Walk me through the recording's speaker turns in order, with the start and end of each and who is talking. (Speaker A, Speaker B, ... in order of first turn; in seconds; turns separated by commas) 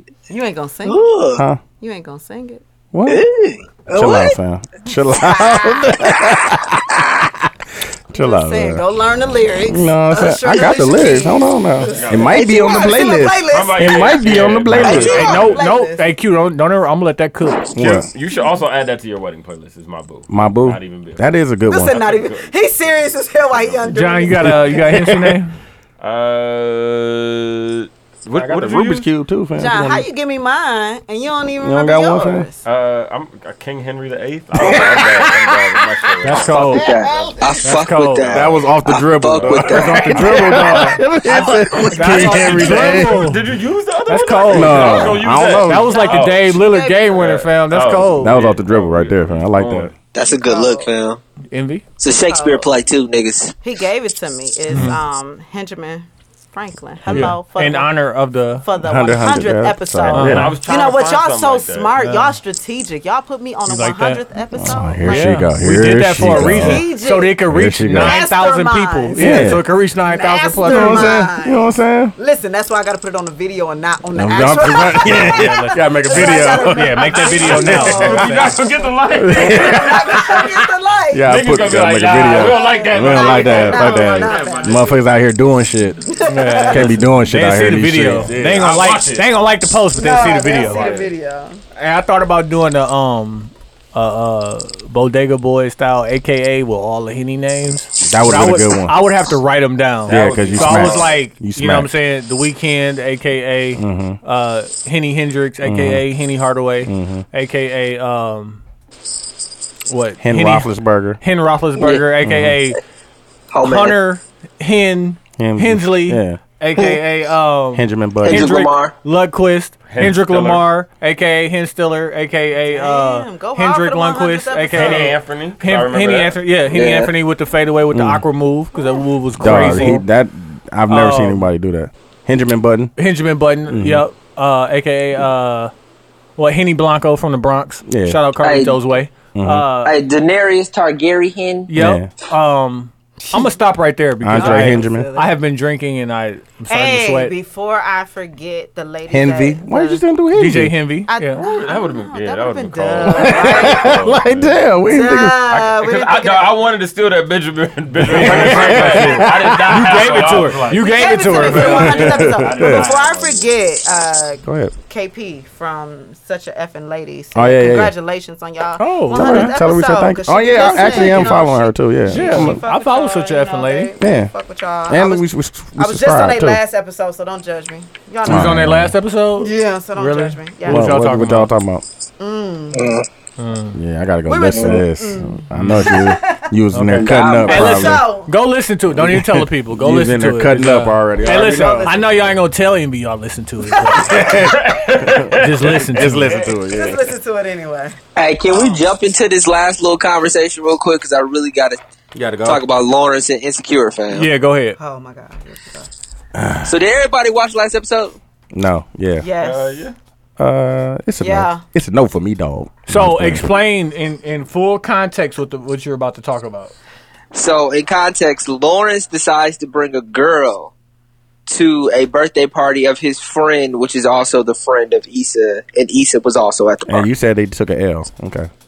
Speaker A: 0.3-1.1, Speaker B: 0.8-1.4, Speaker C: 1.4-1.6, Speaker A: 1.8-2.6, Speaker C: 2.9-3.2, Speaker B: 3.1-4.4, Speaker C: 3.9-7.5, Speaker A: 5.1-6.1, Speaker C: 8.1-8.8, Speaker A: 8.1-16.1, Speaker C: 9.7-15.5, Speaker D: 11.9-15.6, Speaker E: 14.8-17.6, Speaker C: 17.8-18.1, Speaker D: 17.8-22.5, Speaker C: 20.3-22.0, Speaker A: 21.7-25.0, Speaker D: 23.5-23.8, Speaker E: 23.9-25.6, Speaker C: 24.4-25.1, Speaker D: 26.0-29.1, Speaker C: 28.3-30.1, Speaker A: 29.6-32.6, Speaker C: 31.6-32.5, Speaker D: 32.6-36.8, Speaker C: 34.5-36.2, Speaker E: 36.2-36.9, Speaker B: 36.7-40.1, Speaker A: 37.1-37.5, Speaker E: 37.6-38.4, Speaker C: 38.3-43.3, Speaker D: 39.3-40.9, Speaker E: 39.7-41.0, Speaker B: 41.2-42.3, Speaker E: 41.9-43.5, Speaker D: 42.3-46.5, Speaker E: 44.1-48.4, Speaker C: 44.5-46.0, Speaker A: 45.7-47.3, Speaker D: 47.1-49.9, Speaker C: 48.2-49.9, Speaker B: 50.1-51.2, Speaker A: 50.2-50.9, Speaker E: 51.5-51.8, Speaker B: 52.0-53.6, Speaker A: 52.2-52.7, Speaker A: 53.6-58.0, Speaker E: 54.7-55.0, Speaker C: 57.1-57.4, Speaker E: 57.1-58.6, Speaker A: 58.6-65.5, Speaker C: 58.8-60.5, Speaker E: 60.1-60.6, Speaker D: 60.2-62.0, Speaker E: 62.0-62.4, Speaker E: 63.7-64.2, Speaker C: 64.5-66.8, Speaker E: 65.0-71.2, Speaker A: 66.2-71.7, Speaker C: 67.5-68.2, Speaker C: 69.2-69.6, Speaker C: 70.6-72.2, Speaker A: 72.2-78.6, Speaker C: 74.1-78.0, Speaker E: 75.0-78.6, Speaker D: 77.2-80.5, Speaker C: 79.2-80.5, Speaker A: 79.4-81.3, Speaker C: 81.1-86.0, Speaker D: 81.2-85.0, Speaker A: 82.1-84.9, Speaker A: 86.0-87.0, Speaker E: 86.3-90.9, Speaker C: 86.7-88.7, Speaker D: 88.4-89.3, Speaker A: 90.0-91.6, Speaker D: 90.5-91.1, Speaker E: 91.8-108.6, Speaker C: 98.0-99.1, Speaker D: 100.1-101.3, Speaker C: 100.1-101.9, Speaker C: 103.8-104.2, Speaker C: 105.6-106.1, Speaker C: 106.9-107.2, Speaker E: 109.9-110.7, Speaker C: 110.2-111.2, Speaker E: 111.2-112.8, Speaker B: 111.8-112.0, Speaker C: 112.2-112.6, Speaker B: 113.5-114.0, Speaker E: 113.6-130.1, Speaker C: 115.4-116.4, Speaker C: 117.8-118.6, Speaker B: 118.2-118.9, Speaker D: 119.9-120.7, Speaker A: 122.7-125.2, Speaker D: 124.7-126.4, Speaker B: 126.7-127.1, Speaker C: 127.9-128.2, Speaker C: 129.4-132.9, Speaker E: 130.9-131.5, Speaker E: 133.0-135.7, Speaker C: 133.7-134.1, Speaker E: 136.4-140.0, Speaker C: 137.9-138.2, Speaker B: 138.4-138.8, Speaker C: 139.3-139.7, Speaker B: 139.8-141.7, Speaker E: 141.7-147.3, Speaker C: 141.7-142.1, Speaker A: 143.2-143.6, Speaker C: 144.2-145.1, Speaker A: 144.3-145.4, Speaker A: 146.7-150.0, Speaker C: 149.1-150.8, Speaker E: 150.3-151.4, Speaker A: 151.1-154.1, Speaker D: 151.4-154.6, Speaker C: 153.1-155.4, Speaker A: 154.9-156.7, Speaker D: 155.5-163.5, Speaker C: 158.0-159.9, Speaker E: 158.0-162.1, Speaker A: 160.7-178.7, Speaker C: 161.7-162.9, Speaker C: 164.4-164.7, Speaker C: 167.3-167.9, Speaker E: 168.8-169.6, Speaker C: 169.1-172.6, Speaker E: 170.6-171.4, Speaker E: 172.1-173.9, Speaker C: 174.0-174.3, Speaker C: 174.9-176.6, Speaker C: 178.2-178.9, Speaker E: 178.3-181.5, Speaker A: 179.4-180.9, Speaker C: 180.7-181.8, Speaker A: 182.2-183.0, Speaker B: 182.7-183.1, Speaker E: 183.4-183.8, Speaker C: 183.7-188.1, Speaker A: 184.3-186.5, Speaker B: 184.5-184.8, Speaker E: 185.6-185.9, Speaker E: 186.7-194.3, Speaker B: 186.9-187.7, Speaker A: 187.5-188.3, Speaker C: 188.9-191.9, Speaker A: 191.2-192.2, Speaker A: 193.7-194.5, Speaker C: 194.1-195.3, Speaker D: 194.2-196.2, Speaker E: 195.3-196.4, Speaker C: 195.9-197.1, Speaker A: 196.3-198.0, Speaker B: 198.2-201.8, Speaker C: 202.1-202.6, Speaker B: 202.4-204.3, Speaker E: 204.1-204.8, Speaker A: 204.8-205.9, Speaker C: 206.3-206.7, Speaker B: 206.7-208.2, Speaker C: 208.5-209.3, Speaker A: 209.2-209.9, Speaker D: 209.4-209.9, Speaker C: 210.4-213.6, Speaker A: 211.2-211.6, Speaker E: 212.9-216.7, Speaker B: 217.3-220.7, Speaker B: 221.5-227.1, Speaker C: 226.9-228.5